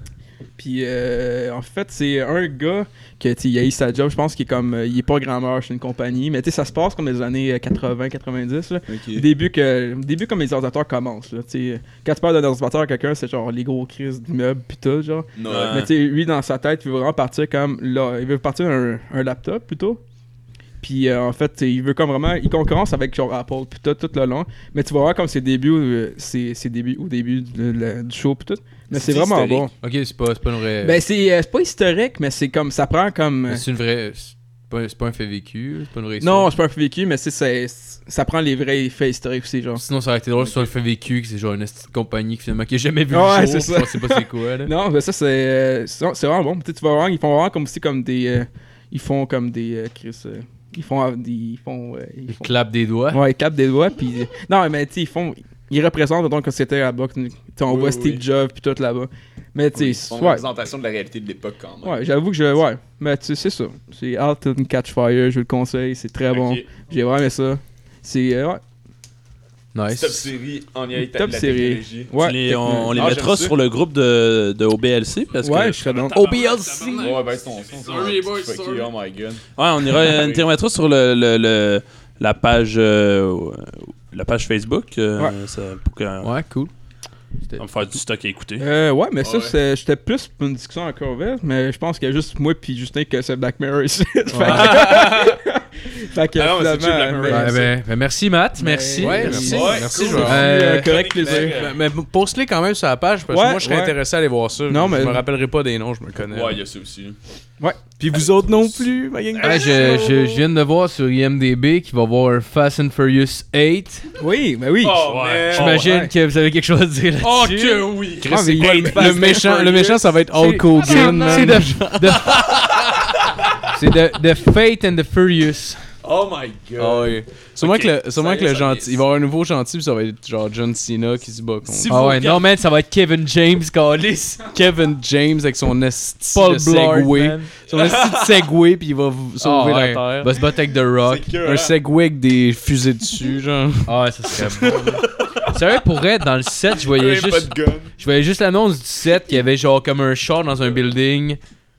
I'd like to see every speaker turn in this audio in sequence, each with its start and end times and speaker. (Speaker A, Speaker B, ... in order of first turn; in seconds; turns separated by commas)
Speaker A: 0.6-20.0, Speaker B: 8.9-9.3, Speaker B: 15.4-15.9, Speaker C: 15.5-15.9, Speaker A: 20.8-29.7, Speaker B: 28.9-29.7, Speaker D: 29.8-31.0, Speaker A: 30.8-33.6, Speaker D: 33.5-36.5, Speaker A: 36.2-39.8, Speaker D: 39.8-44.7, Speaker B: 40.4-40.7, Speaker A: 43.1-52.5, Speaker D: 52.3-53.2, Speaker A: 53.1-60.4, Speaker B: 57.6-58.2, Speaker B: 59.7-62.1, Speaker A: 61.8-68.6, Speaker B: 66.3-66.7, Speaker D: 69.8-70.3, Speaker B: 69.9-72.1, Speaker A: 71.0-73.2, Speaker C: 72.2-78.9, Speaker B: 72.9-73.6, Speaker A: 75.4-76.2, Speaker D: 76.1-77.2, Speaker B: 76.9-80.5, Speaker C: 79.6-86.3, Speaker D: 86.2-86.7, Speaker C: 87.6-88.7, Speaker A: 88.6-97.6, Speaker B: 89.2-89.6, Speaker D: 94.3-94.8, Speaker B: 94.4-95.4, Speaker B: 96.3-97.8, Speaker D: 97.3-99.7, Speaker A: 98.6-101.7, Speaker E: 99.0-100.5, Speaker B: 99.3-101.8, Speaker D: 100.2-101.0, Speaker E: 101.3-106.6, Speaker A: 103.3-104.0, Speaker A: 104.7-105.2, Speaker B: 106.2-107.2, Speaker E: 108.0-110.1, Speaker D: 109.4-114.0, Speaker B: 109.5-109.9, Speaker A: 114.2-115.1, Speaker B: 114.8-116.0, Speaker C: 115.0-115.8, Speaker D: 115.5-117.9, Speaker A: 115.7-116.1, Speaker C: 117.2-118.2, Speaker B: 117.9-120.1, Speaker E: 118.2-122.6, Speaker A: 118.2-119.6, Speaker D: 120.3-122.4, Speaker D: 123.7-125.8, Speaker B: 126.0-127.2, Speaker E: 126.8-132.0, Speaker C: 127.6-127.9, Speaker B: 128.2-129.0, Speaker C: 131.7-132.5, Speaker D: 131.9-134.4, Speaker E: 134.5-140.3, Speaker D: 136.3-137.5, Speaker B: 137.7-138.3, Speaker D: 139.4-141.3, Speaker B: 141.0-141.8, Speaker E: 141.4-145.2, Speaker D: 143.9-151.4, Speaker B: 146.7-147.9